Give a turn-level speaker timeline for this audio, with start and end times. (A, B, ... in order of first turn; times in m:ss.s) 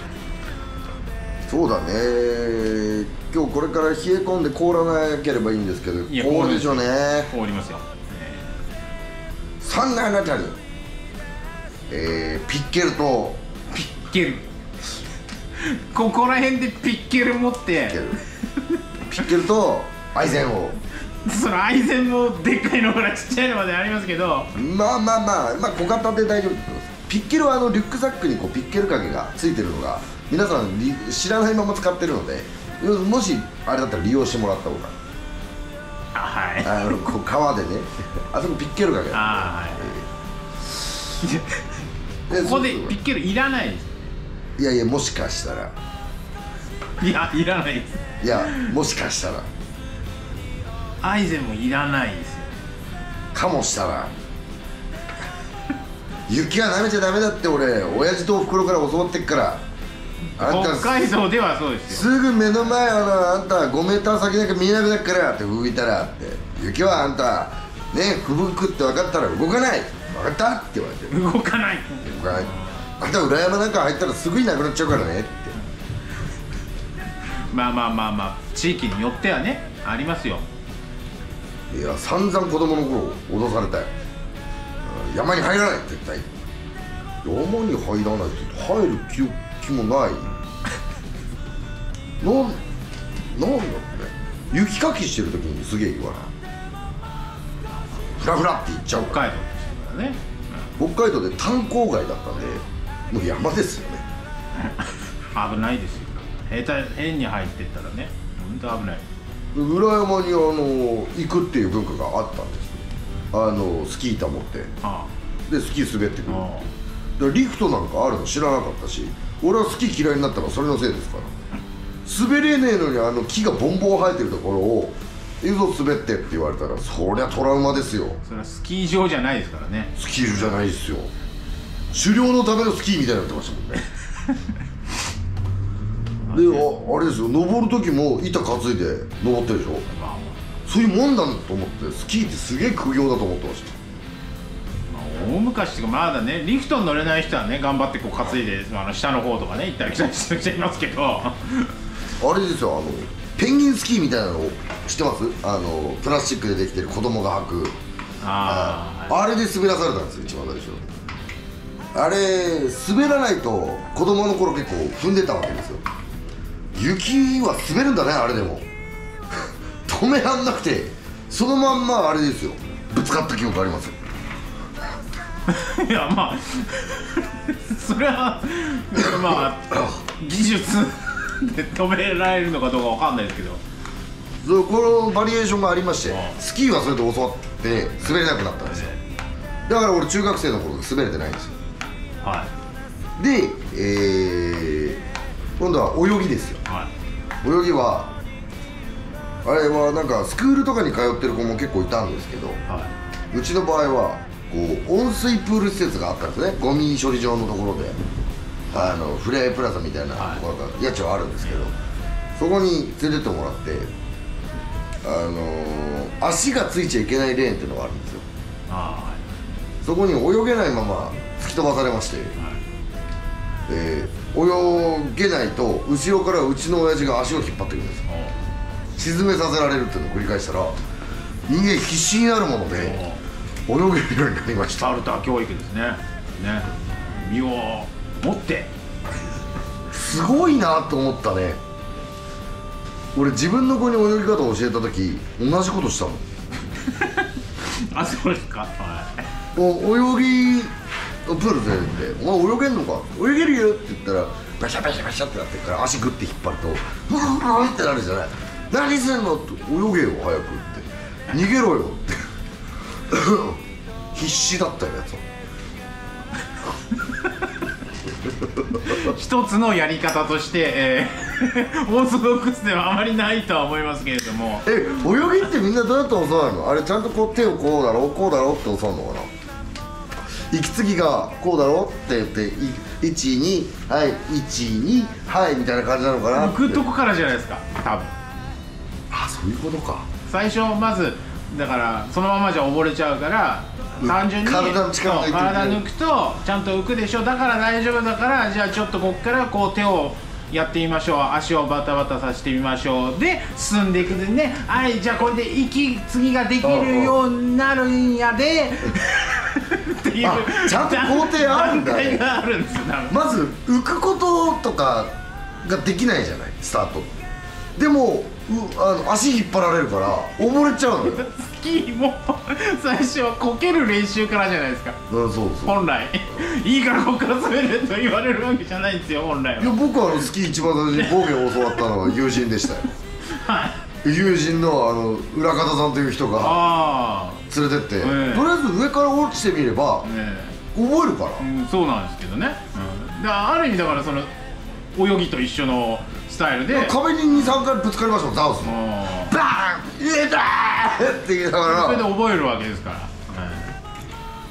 0:01.5-0:07.3 A
0:06.1-0:08.5 B
0:09.6-0:10.6 A
0:11.9-0:13.4 A
0:13.7-0:14.5 B
0:15.6-0:18.8 B
0:17.9-0:18.2 A
0:19.0-0:20.8 A
0:21.2-0:24.5 B
0:24.5-0:35.0 A
0:36.1-0:37.0 B
0:36.6-0:40.0 A
0:39.1-0:39.9 B
0:40.8-0:41.7 B
0:42.3-0:43.0 A
0:42.3-0:44.1 B
0:44.6-0:45.7 A
0:47.0-0:48.7 B
0:48.2-0:49.5 A
0:51.0-0:52.6 B
0:53.3-0:54.1 A
0:56.3-0:59.6 A
1:00.4-1:02.0 B
1:00.4-1:01.1 A
1:01.9-1:11.2 A
1:11.1-1:12.7 B
1:12.0-1:15.6 A
1:17.5-1:20.5 B
1:21.7-1:23.9 A
1:24.8-1:26.3 A
1:27.2-1:30.3 A
1:32.2-1:32.6 A
1:33.3-1:36.3 A
1:38.2-1:39.2 A
1:38.9-1:40.2 B
1:40.8-1:44.0 A
1:44.5-1:49.0 B
1:49.5-1:54.7 A
1:54.8-1:55.1 B
1:55.5-1:56.5 A
1:56.3-1:56.7 B
1:57.2-2:01.3 A
2:02.0-2:08.2 A
2:08.2-2:10.0 B
2:10.0-2:11.1 A
2:11.9-2:13.8 A
2:16.2-2:16.7 B
2:16.3-2:19.8 A
2:19.9-2:20.4 B
2:20.6-2:23.8 A
2:24.9-2:31.7 B
2:32.2-2:37.8 A
2:38.2-2:39.2 B
2:38.4-2:40.8 A
2:41.9-2:45.8 A
2:46.7-2:48.7 A
2:49.8-2:54.0 A
2:55.5-3:03.6 B
3:04.4-3:08.9 A
3:06.1-3:06.4 B
3:08.7-3:09.0 B
3:09.6-3:11.6 A
3:12.2-3:12.5 B
3:13.2-3:15.0 A
3:15.6-3:16.6 A
3:17.4-3:18.1 A
3:19.4-3:22.6 A
3:23.3-3:28.0 A
3:28.7-3:31.7 A
3:30.2-3:30.4 B
3:32.4-3:33.9 A
3:35.0-3:38.2 A
3:38.7-3:39.3 B
3:39.8-3:42.3 A
3:42.4-3:42.6 B
3:43.7-3:48.0 A
3:48.1-3:48.3 B
3:49.0-3:50.7 A
3:51.5-3:53.0 A
3:52.7-3:53.2 B
3:53.7-3:54.9 A
3:54.8-3:58.7 B
3:59.9-4:01.6 A
4:03.1-4:06.2 A
4:06.8-4:09.3 B
4:09.6-4:10.7 A
4:11.2-4:22.2 A
4:23.1-4:23.6 A
4:24.1-4:25.2 A
4:28.4-4:29.1 A
4:28.8-4:34.8 B
4:34.6-4:39.3 A
4:40.5-4:46.8 A
4:46.3-4:48.1 B
4:49.1-4:50.1 A
4:50.3-5:13.2 B
4:54.0-4:55.8 A
5:06.6-5:07.2 A
5:10.2-5:12.2 A
5:13.1-5:17.1 A
5:17.8-5:21.3 A
5:21.0-5:25.0 B
5:25.1-5:25.8 A
5:25.6-5:29.8 B
5:29.6-5:32.9 A
5:31.0-5:31.3 B
5:33.3-5:33.8 B
5:34.0-5:36.6 A
5:36.4-5:37.4 B
5:37.5-5:40.1 A
5:38.0-5:38.5 B
5:40.0-5:40.6 B
5:40.7-5:41.4 A
5:41.4-5:44.3 B
5:44.9-5:47.6 B
5:46.7-5:52.1 A
5:48.6-5:49.4 B
5:51.6-5:53.7 B